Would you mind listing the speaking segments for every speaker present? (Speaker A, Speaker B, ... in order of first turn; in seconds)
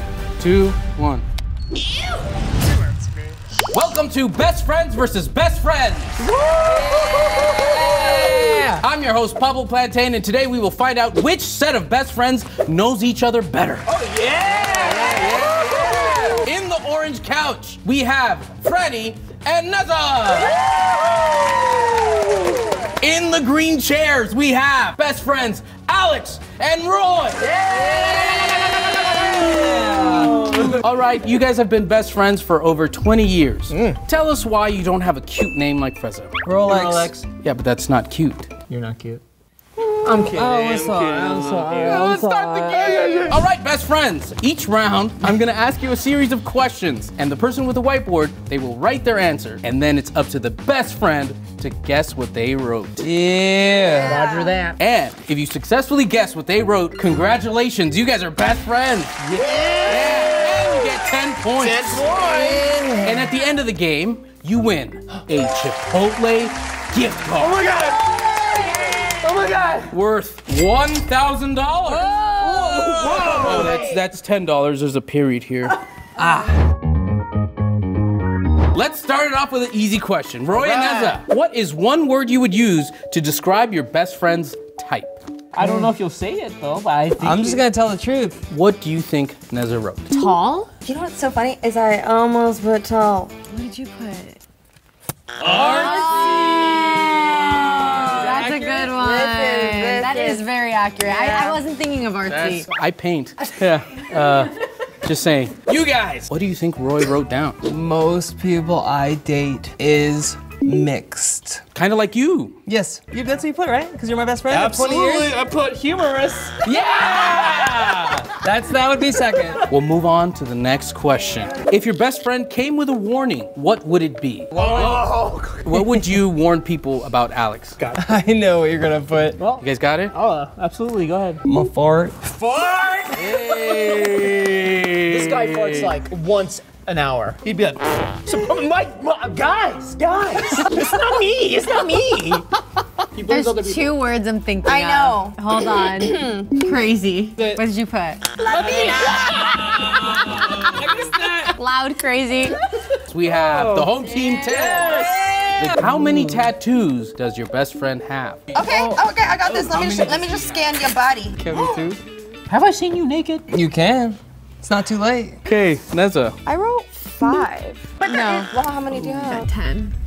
Speaker A: 0.4-1.2, 3.7-6.2, 8.8-13.9, 14.6-20.6, 23.0-29.4, 30.8-38.5, 40.8-53.0, 54.8-59.2, 59.8-67.7, 69.9-75.8, 78.7-85.2, 88.5-90.1, 95.4-98.5, 102.2-107.6, 111.7-112.6, 119.7-127.8, 129.6-130.1, 133.1-135.9, 153.1-158.5, 159.4-162.0, 165.4-166.4
Speaker B: 6.2-6.5, 13.9-16.4, 20.6-21.6, 29.8-30.8, 36.7-37.1, 38.7-39.2, 40.0-43.4, 54.0-54.8, 59.2-62.3, 67.4-69.9, 72.0-73.9, 80.5-81.2, 85.5-87.6, 114.5-118.3, 124.5-126.0, 127.8-128.0, 129.4-131.4, 132.2-134.3, 135.1-142.4, 143.1-143.9, 148.4-149.9, 153.2-155.2, 158.7-159.0, 162.5-163.4
Speaker C: 6.6-8.8, 27.4-30.7, 33.7-34.0, 36.4-37.1, 40.3-43.2, 53.0-54.3, 62.0-63.3, 72.0-73.7, 85.6-85.9, 87.2-88.4, 95.9-96.8, 97.3-98.9, 107.6-111.6, 112.7-115.4, 116.6-119.6, 128.0-129.4, 131.4-132.2, 150.0-151.5, 154.5-156.1, 163.5-165.4
Speaker D: 6.9-8.5, 53.8-54.6, 59.6-59.9, 90.8-93.3, 98.8-100.4, 101.0-101.6, 144.6-146.5, 148.4-150.6, 158.5-161.8, 166.4-169.5
Speaker E: 90.1-90.7, 93.5-94.4, 95.5-97.3, 98.1-102.7, 143.3-148.2, 151.5-152.6, 168.0-168.5, 169.2-169.9